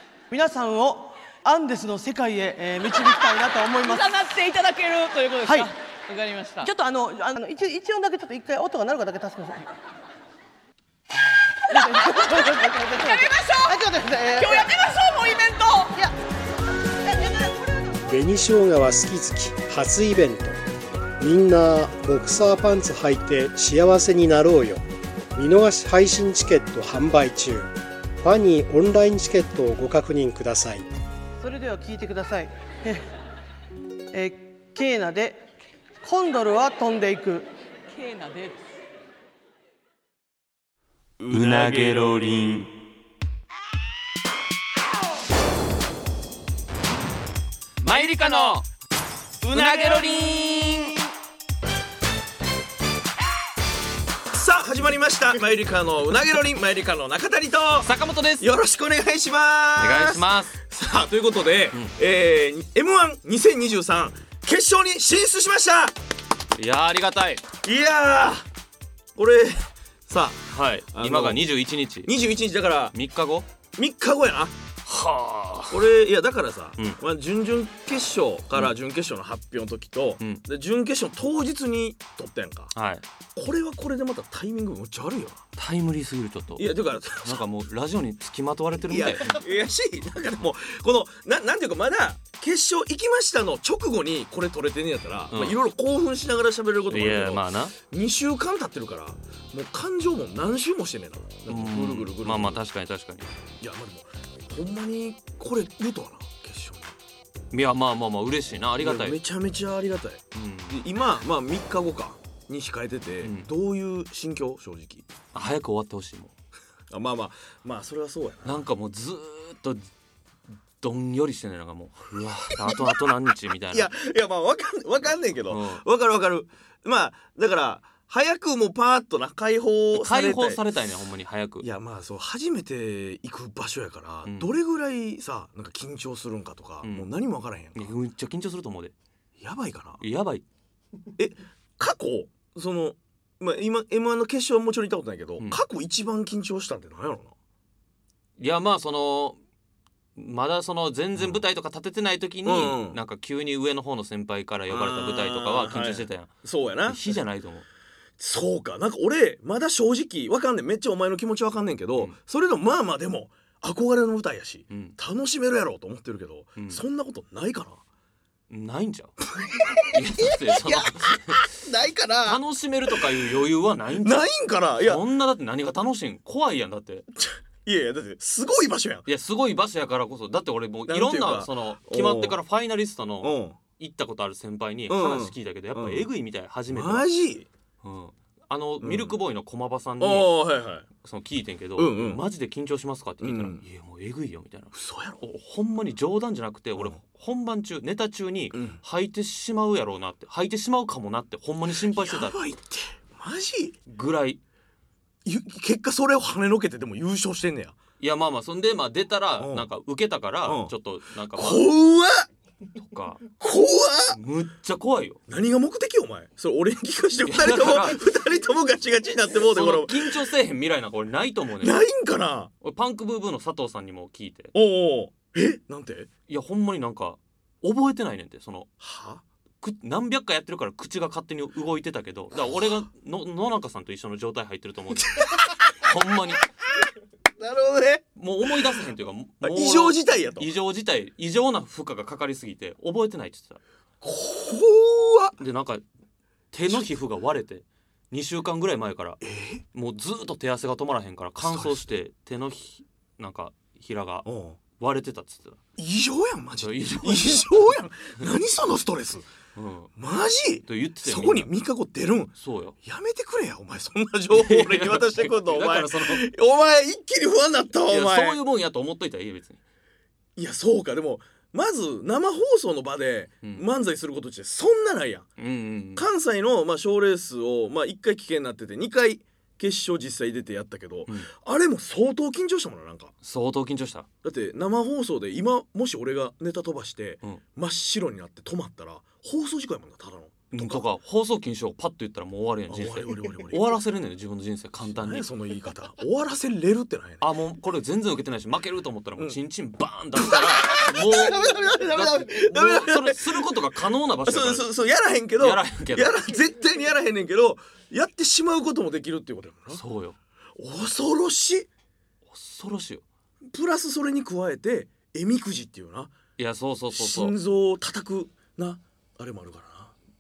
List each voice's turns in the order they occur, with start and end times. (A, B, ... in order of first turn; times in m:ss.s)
0:00.3-0:04.2 A
0:03.8-0:06.7 B
0:05.4-0:05.7 A
0:06.6-0:09.7 A
0:11.7-0:14.7 A
0:11.7-0:13.8 B
0:14.4-0:16.0 B
0:18.0-0:20.6 C
0:21.2-0:24.8 C
0:25.3-0:30.8 C
0:31.4-0:33.1 A
0:34.1-0:35.4 A
0:36.0-0:37.5 A
0:37.9-0:38.6 B
0:41.2-0:42.2 D
0:41.3-0:42.7 E
0:47.8-0:48.7 E
0:49.4-0:50.3 D
0:49.5-0:51.0 E
0:54.3-1:05.9 D
0:57.8-0:58.4 E
0:59.8-1:00.6 E
1:06.6-1:07.4 E
1:07.6-1:08.4 D
1:09.2-1:11.4 D
1:10.5-1:12.1 E
1:12.0-1:12.9 D
1:12.9-1:13.4 E
1:13.8-1:14.6 D
1:14.8-1:15.8 E
1:15.7-1:22.7 D
1:22.7-1:23.0 E
1:23.4-1:25.4 D
1:25.6-1:29.3 E
1:26.6-1:27.4 D
1:28.9-1:42.6 D
1:35.3-1:35.6 E
1:36.9-1:37.8 E
1:41.5-1:43.3 E
1:43.6-1:47.0 D
1:47.5-1:49.2 E
1:48.8-1:55.1 D
1:50.3-1:50.8 E
1:53.2-1:53.5 E
1:55.3-1:56.3 E
1:56.9-1:58.7 D
1:58.4-1:59.9 E
2:00.8-2:03.9 E
2:03.7-2:10.6 D
2:05.5-2:05.8 E
2:09.9-2:11.7 E
2:11.6-2:17.9 D
2:14.2-2:14.5 E
2:16.8-2:17.1 E
2:17.7-2:18.9 E
2:19.4-2:20.0 D
2:20.0-2:20.4 E
2:21.2-2:27.3 D
2:28.4-2:29.4 E
2:30.2-2:36.3 E
2:31.2-2:31.4 D
2:32.4-2:33.0 D
2:34.7-2:37.2 D
2:36.8-2:37.6 E
2:38.2-2:47.8 D
2:44.7-2:45.0 E
2:46.6-2:46.8 E
2:48.5-2:49.2 E
2:49.3-2:53.3 D
2:49.8-2:51.5 E
2:52.2-2:57.0 E
2:53.9-2:55.0 D
2:57.1-2:59.1 D
2:59.1-3:07.1 E
3:00.9-3:02.4 D
3:03.2-3:03.6 D
3:04.9-3:06.1 D
3:06.7-3:07.5 D
3:07.8-3:10.3 E
3:08.8-3:09.1 D
3:10.0-3:10.8 D
3:11.0-3:22.4 E
3:11.8-3:12.2 D
3:13.2-3:13.6 D
3:14.7-3:15.2 D
3:18.5-3:18.8 D
3:21.8-3:23.8 D
3:23.9-3:24.4 E
3:25.2-3:27.7 D
3:28.0-3:31.7 E
3:29.4-3:29.7 D
3:30.4-3:30.7 D
3:31.3-3:32.3 D
3:32.9-3:33.2 E
3:33.4-3:34.2 D
3:34.1-3:35.2 E
3:35.3-3:40.2 D
3:37.2-3:38.0 E
3:39.5-3:41.8 E
3:41.6-3:42.5 D
3:42.6-3:44.5 E
3:44.5-3:46.1 D
3:46.3-3:48.7 E
3:48.8-3:49.2 D
3:49.6-3:56.4 E
3:55.1-3:55.7 D
3:57.4-3:58.7 D
3:58.2-4:03.6 E
3:59.4-4:00.5 D
4:04.0-4:05.4 D
4:05.4-4:05.8 E
4:06.5-4:09.2 E
4:09.2-4:09.6 D
4:09.7-4:15.6 E
4:11.4-4:11.8 D
4:14.2-4:14.6 D
4:15.8-4:19.3 D
4:16.6-4:17.6 E
4:19.6-4:19.9 E
4:20.0-4:28.4 D
4:20.6-4:21.5 E
4:22.4-4:22.8 E
4:24.3-4:26.3 E
4:27.9-4:29.6 E
4:30.4-4:35.3 D
4:35.4-4:36.0 E
4:35.9-4:43.1 D
4:43.2-4:44.1 E
4:44.2-4:50.8 D
4:50.5-4:55.2 E
4:52.7-4:53.8 D
4:54.8-4:57.3 D
4:57.2-5:04.7 E
5:00.2-5:03.6 D
5:04.2-5:09.8 D
5:05.4-5:06.2 E
5:09.7-5:10.2 E
5:10.6-5:11.7 D
5:12.3-5:13.0 E
5:13.4-5:16.1 D
5:16.4-5:17.4 E
5:16.9-5:19.9 D